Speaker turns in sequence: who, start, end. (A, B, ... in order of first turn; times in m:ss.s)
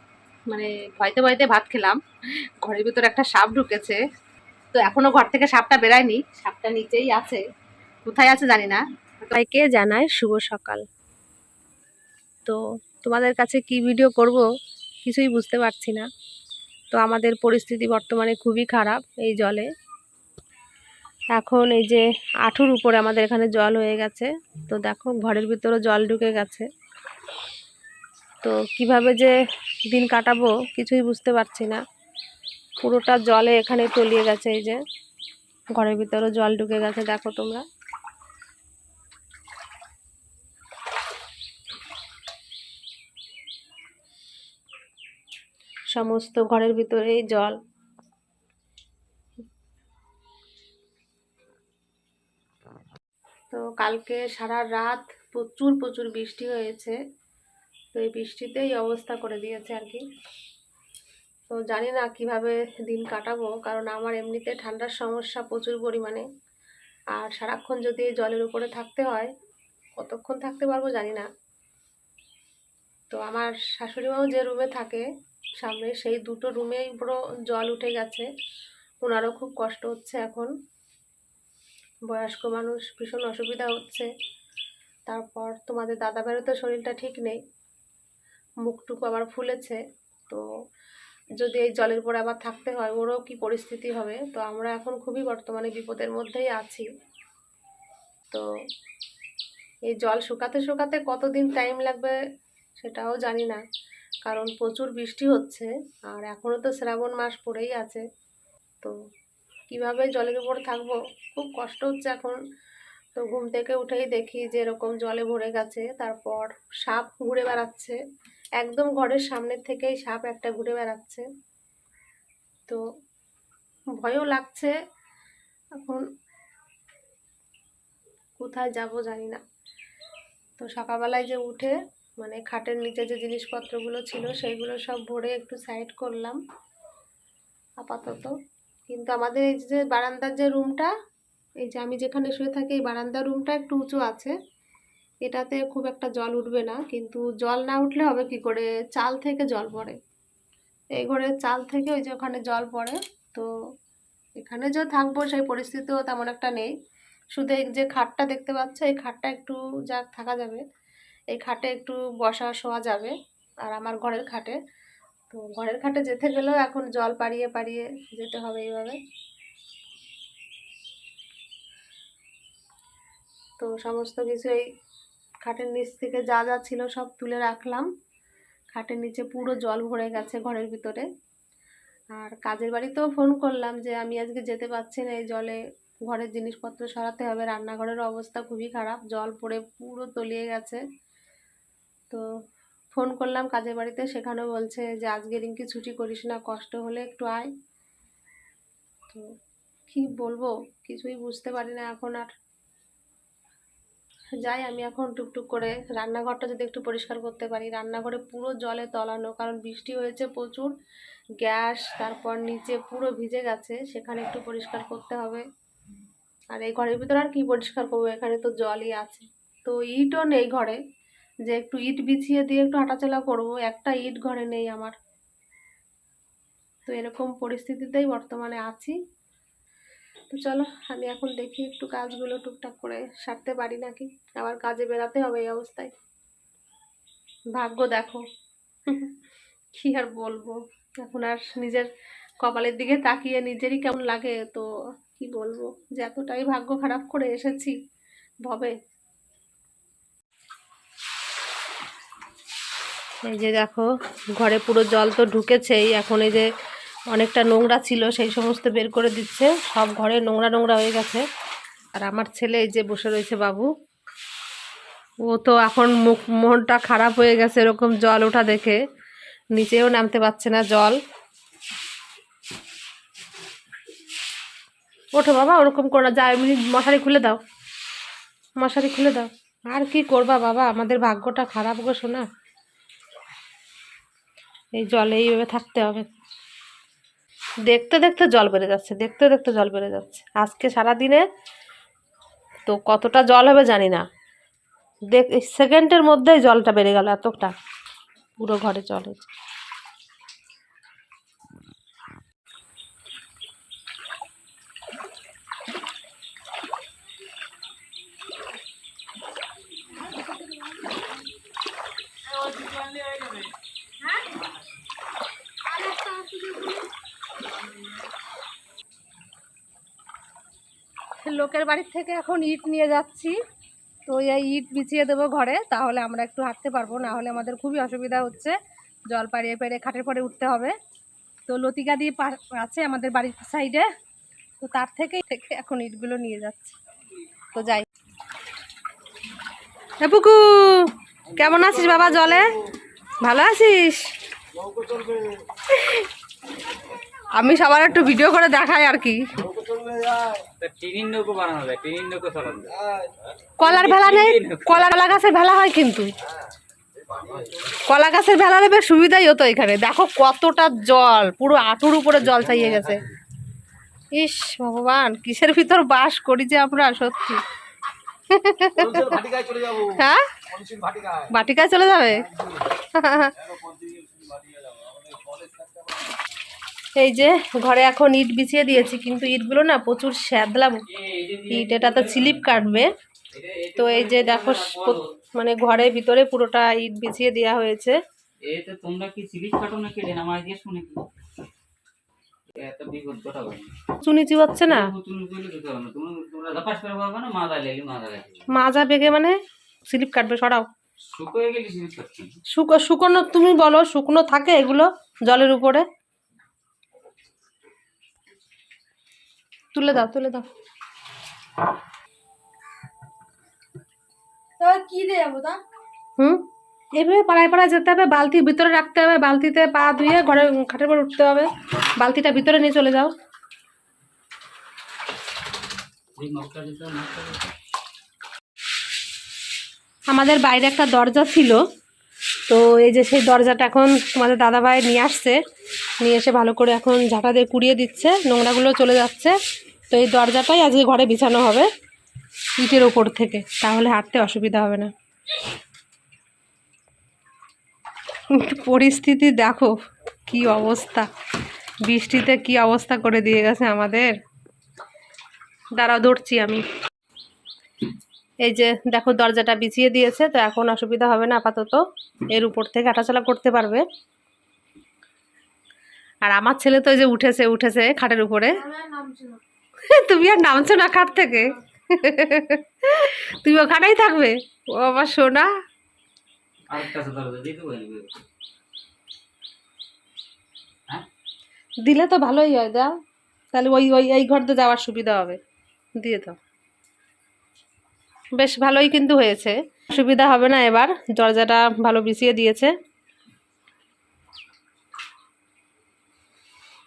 0:00.5-0:02.0 A
0:02.6-0:04.0 A
0:04.7-0:07.4 A
0:08.1-0:10.8 A
0:12.4-0:14.4 A
0:15.0-0:16.1 A
0:16.9-0:19.7 A
0:21.4-0:26.7 A
0:28.4-0:29.3 A
0:29.9-0:31.8 A
0:32.8-0:34.8 A
0:35.8-0:37.6 A
0:45.9-0:47.6 A
0:53.5-0:57.0 A
0:57.9-1:00.0 A
1:01.5-1:06.3 A
1:07.1-1:09.3 A
1:10.0-1:11.3 A
1:13.1-1:15.1 A
1:15.6-1:18.3 A
1:19.0-1:20.5 A
1:22.1-1:24.1 A
1:25.1-1:27.4 A
1:28.6-1:30.4 A
1:31.4-1:36.9 A
1:39.9-1:42.2 A
1:42.8-1:43.6 A
1:44.2-1:48.0 A
1:49.7-1:52.4 A
1:53.2-1:58.0 A
1:58.6-2:01.2 A
2:04.0-2:04.7 A
2:08.4-2:09.4 A
2:10.6-2:16.4 A
2:17.8-2:18.3 A
2:18.9-2:20.9 A
2:21.6-2:24.3 A
2:25.2-2:30.0 A
2:31.0-2:33.5 A
2:34.4-2:36.7 A
2:37.3-2:40.6 A
2:41.3-2:44.6 A
2:45.3-2:49.0 A
2:53.6-2:54.6 A
2:55.4-2:57.9 A
2:58.7-3:01.1 A
3:02.1-3:10.8 A
3:12.9-3:17.5 A
3:19.9-3:22.3 A
3:24.4-3:30.7 A
3:31.4-3:35.4 A
3:36.5-3:40.8 A
3:41.5-3:44.9 A
3:46.9-3:49.0 A
3:50.3-3:55.9 A
3:57.6-3:58.2 A
3:59.8-4:01.9 A
4:02.4-4:07.8 A
4:08.5-4:08.8 A
4:13.2-4:16.5 A
4:17.1-4:21.2 A
4:22.0-4:23.7 A
4:25.2-4:28.8 A
4:29.5-4:31.0 A
4:35.2-4:37.4 A
4:38.6-4:42.3 A
4:44.8-4:46.1 A
4:47.7-4:51.2 A
4:52.7-4:54.0 A
4:55.1-4:57.5 A
4:58.4-4:59.3 A
5:15.7-5:16.9 B
5:21.2-5:23.4 A
5:24.1-5:28.6 A
5:29.1-5:30.7 A
5:31.5-5:33.9 A
5:34.6-5:36.8 A
5:37.5-5:37.9 A
5:40.0-5:42.5 A
5:43.2-5:44.1 A
5:44.8-5:45.2 B
5:45.7-5:46.1 A
5:47.4-5:49.2 A
5:49.7-5:50.0 B
5:50.5-5:52.8 C
5:53.6-5:56.1 A
5:53.6-5:55.0 C
5:57.9-6:03.1 A
6:04.2-6:07.4 A
6:08.3-6:10.4 A
6:10.7-6:11.2 B
6:11.3-6:13.4 A
6:13.7-6:15.7 B
6:17.0-6:20.8 A
6:20.9-6:22.5 C
6:21.5-6:22.9 A
6:23.3-6:25.1 C
6:23.8-6:28.0 A
6:28.4-6:31.1 C
6:32.5-6:33.8 C
6:34.0-6:34.9 A
6:34.6-6:38.5 C
6:38.5-6:39.4 A
6:39.9-6:40.7 A
6:41.0-6:42.4 C
6:42.5-6:45.9 A
6:49.7-6:50.4 A
6:54.6-6:55.6 B
6:57.0-7:03.1 A
7:06.2-7:07.5 C
7:10.1-7:11.6 A
7:12.5-7:15.4 A
7:16.0-7:19.4 A
7:19.9-7:21.7 A
7:22.6-7:24.9 A
7:28.3-7:29.7 A
7:30.3-7:31.1 A
7:31.8-7:34.1 A
7:35.8-7:36.6 A
7:38.4-7:43.8 A
7:46.2-7:48.8 A
7:48.7-7:49.4 B
7:49.9-7:55.5 A
7:56.7-7:58.2 C
8:01.8-8:02.9 A
8:03.5-8:05.4 A
8:06.0-8:06.4 A
8:08.4-8:12.7 A